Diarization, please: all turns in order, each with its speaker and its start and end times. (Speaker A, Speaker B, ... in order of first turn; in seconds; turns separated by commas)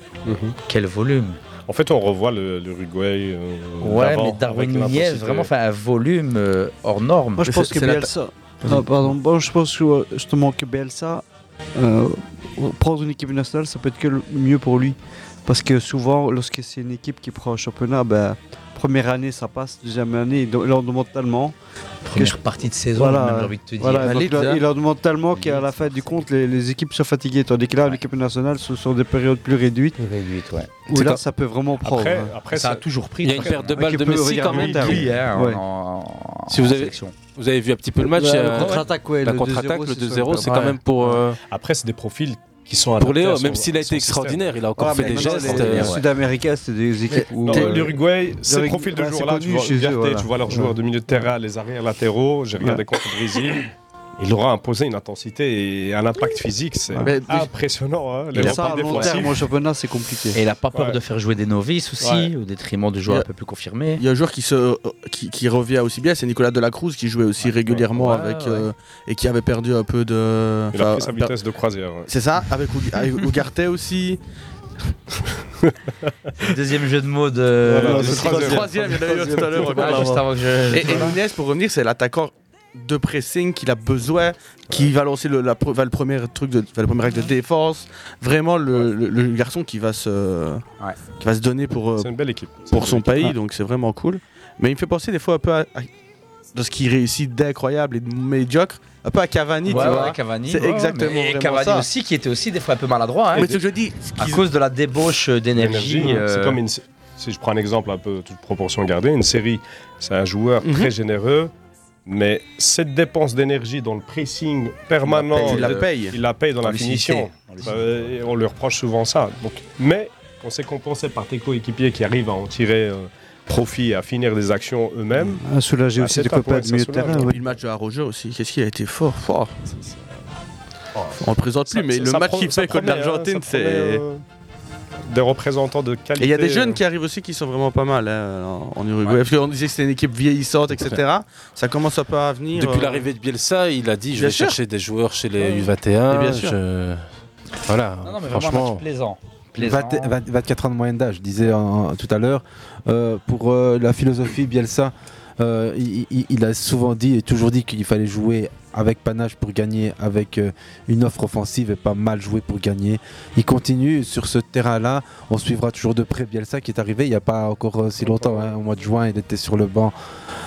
Speaker A: 0.3-0.6, Speaker B: 0.7-1.4, Speaker A: 1.7-5.5, Speaker B: 3.8-7.5, Speaker C: 7.4-11.2, Speaker D: 7.4-8.1, Speaker C: 11.8-21.6, Speaker B: 22.1-24.2, Speaker C: 22.9-30.0, Speaker D: 24.0-24.6, Speaker B: 25.3-26.2, Speaker B: 30.0-30.8, Speaker C: 30.9-32.4, Speaker A: 31.8-32.9, Speaker B: 32.5-33.9, Speaker E: 33.2-35.2, Speaker C: 33.7-35.6, Speaker A: 34.5-34.9, Speaker B: 34.8-37.2, Speaker E: 36.5-41.4, Speaker C: 38.1-41.2, Speaker A: 41.5-44.5, Speaker E: 43.0-46.0, Speaker C: 44.8-50.7, Speaker B: 45.0-46.0, Speaker D: 47.1-47.9, Speaker A: 47.5-59.4, Speaker D: 57.0-57.5, Speaker C: 58.3-60.4, Speaker B: 58.4-59.2, Speaker B: 60.3-64.0, Speaker A: 62.0-62.3, Speaker D: 64.0-71.3, Speaker A: 67.4-67.9, Speaker B: 68.0-68.7, Speaker A: 70.7-72.1, Speaker D: 72.1-74.2, Speaker B: 76.4-78.9, Speaker A: 77.6-78.7, Speaker C: 77.8-80.2, Speaker D: 77.9-90.7, Speaker B: 79.6-81.2, Speaker A: 79.6-79.9, Speaker D: 91.2-92.1, Speaker A: 92.0-93.3, Speaker D: 92.7-95.9, Speaker D: 96.5-101.9, Speaker A: 99.7-100.7, Speaker B: 99.7-103.6, Speaker D: 103.3-104.5, Speaker B: 104.2-106.6, Speaker A: 105.6-111.5, Speaker D: 110.6-110.9, Speaker A: 112.1-125.4, Speaker B: 115.0-116.0, Speaker D: 115.4-116.2, Speaker B: 116.6-118.2, Speaker C: 125.3-127.4, Speaker A: 126.0-127.4, Speaker D: 127.2-129.6, Speaker A: 131.0-134.2, Speaker D: 131.2-134.0, Speaker A: 135.1-136.8, Speaker D: 136.2-143.1, Speaker E: 142.5-147.0, Speaker D: 144.1-144.6, Speaker D: 146.1-146.6, Speaker E: 147.7-148.8, Speaker B: 148.0-150.2, Speaker F: 149.6-169.9, Speaker A: 168.0-168.6